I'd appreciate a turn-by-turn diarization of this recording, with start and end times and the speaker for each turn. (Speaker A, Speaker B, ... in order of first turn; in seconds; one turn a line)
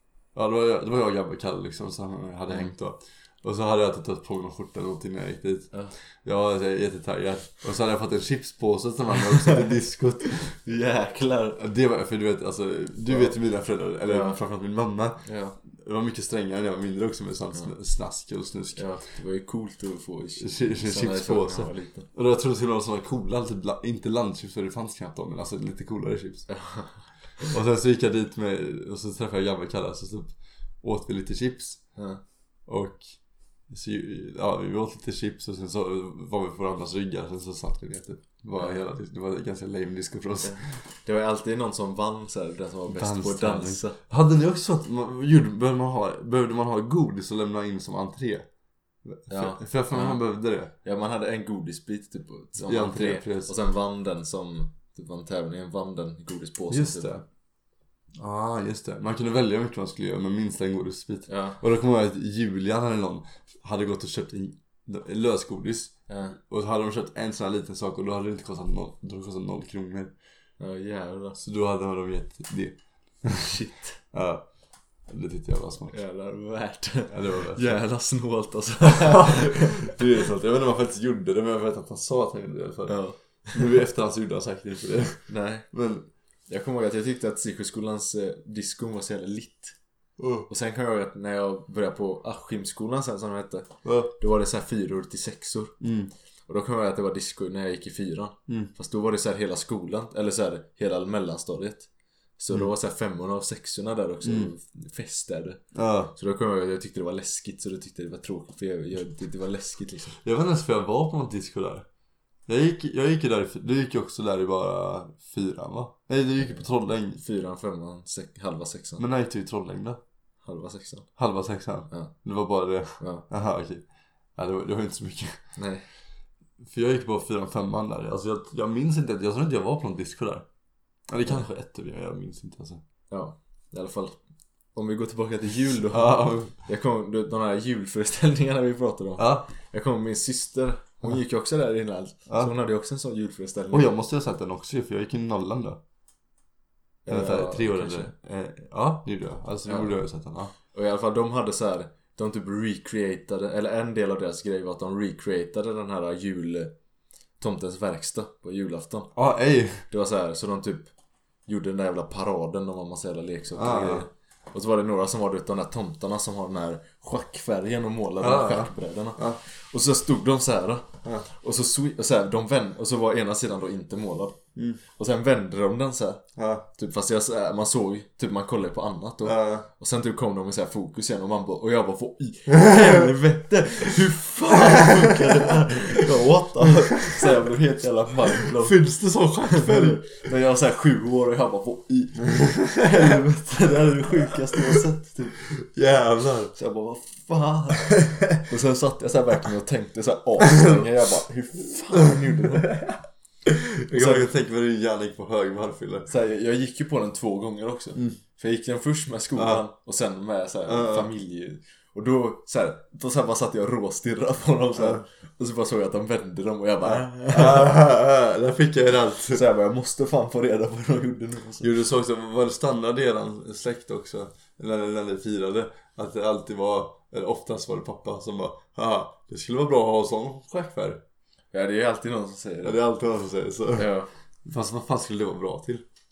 Speaker A: 0.3-5.7
Speaker A: 6.2-10.5
Speaker B: 10.3-11.6
Speaker A: 11.6-18.8
Speaker B: 13.1-13.3
Speaker B: 14.0-14.4
Speaker B: 15.2-15.6
Speaker B: 18.7-22.1
Speaker A: 20.4-26.5
Speaker B: 26.5-27.5
Speaker A: 27.5-31.8
Speaker B: 31.9-32.2
Speaker A: 32.7-33.1
Speaker A: 33.7-40.6
Speaker B: 40.4-44.0
Speaker A: 42.9-48.5
Speaker A: 49.0-50.7
Speaker B: 49.3-50.2
Speaker B: 50.8-57.2
Speaker A: 52.6-53.5
Speaker A: 56.7-57.2
Speaker A: 58.2-70.1
Speaker B: 61.3-61.6
Speaker B: 66.1-66.4
Speaker B: 70.6-71.4
Speaker A: 71.4-73.5
Speaker B: 73.4-74.0
Speaker A: 74.1-74.5
Speaker A: 75.1-76.0
Speaker B: 75.9-79.9
Speaker A: 77.1-77.8
Speaker A: 78.8-83.0
Speaker B: 82.9-83.7
Speaker A: 83.5-86.1
Speaker B: 85.3-85.7
Speaker B: 86.5-89.8
Speaker A: 90.2-90.5
Speaker B: 90.5-95.8
Speaker A: 93.8-94.1
Speaker A: 95.8-96.1
Speaker B: 96.5-105.6
Speaker A: 104.2-104.5
Speaker A: 105.7-106.1
Speaker B: 106.1-110.2
Speaker A: 110.2-111.8
Speaker A: 112.5-117.2
Speaker B: 117.2-119.0
Speaker A: 119.0-120.0
Speaker B: 120.4-121.1
Speaker A: 121.2-123.8
Speaker B: 123.0-123.3
Speaker A: 124.3-125.4
Speaker B: 125.5-125.8
Speaker A: 126.6-130.4
Speaker A: 131.1-132.8
Speaker B: 133.1-134.2
Speaker B: 134.7-143.9
Speaker A: 135.9-136.5
Speaker A: 139.2-139.5
Speaker A: 143.7-145.8
Speaker B: 147.1-148.1
Speaker A: 147.1-150.5
Speaker B: 149.7-150.0
Speaker B: 150.7-156.7
Speaker B: 157.4-159.1
Speaker A: 159.1-159.8
Speaker B: 159.9-160.9
Speaker B: 161.5-188.8
Speaker A: 163.6-164.1
Speaker A: 168.2-169.4
Speaker A: 176.4-176.7
Speaker A: 179.2-179.7
Speaker A: 182.6-183.1
Speaker A: 184.9-185.3
Speaker A: 186.9-187.3
Speaker A: 188.4-190.1
Speaker B: 189.4-195.4
Speaker A: 192.3-193.2
Speaker A: 195.5-196.5
Speaker B: 196.6-202.8
Speaker A: 200.5-200.9
Speaker A: 202.1-206.1
Speaker B: 203.9-204.3
Speaker B: 206.1-217.8
Speaker A: 209.3-209.6
Speaker A: 210.7-211.1
Speaker A: 214.8-215.0
Speaker A: 216.8-219.4
Speaker B: 219.3-221.7
Speaker A: 221.6-231.0
Speaker B: 231.5-232.8
Speaker A: 232.6-233.9
Speaker B: 233.8-234.1
Speaker A: 234.4-235.8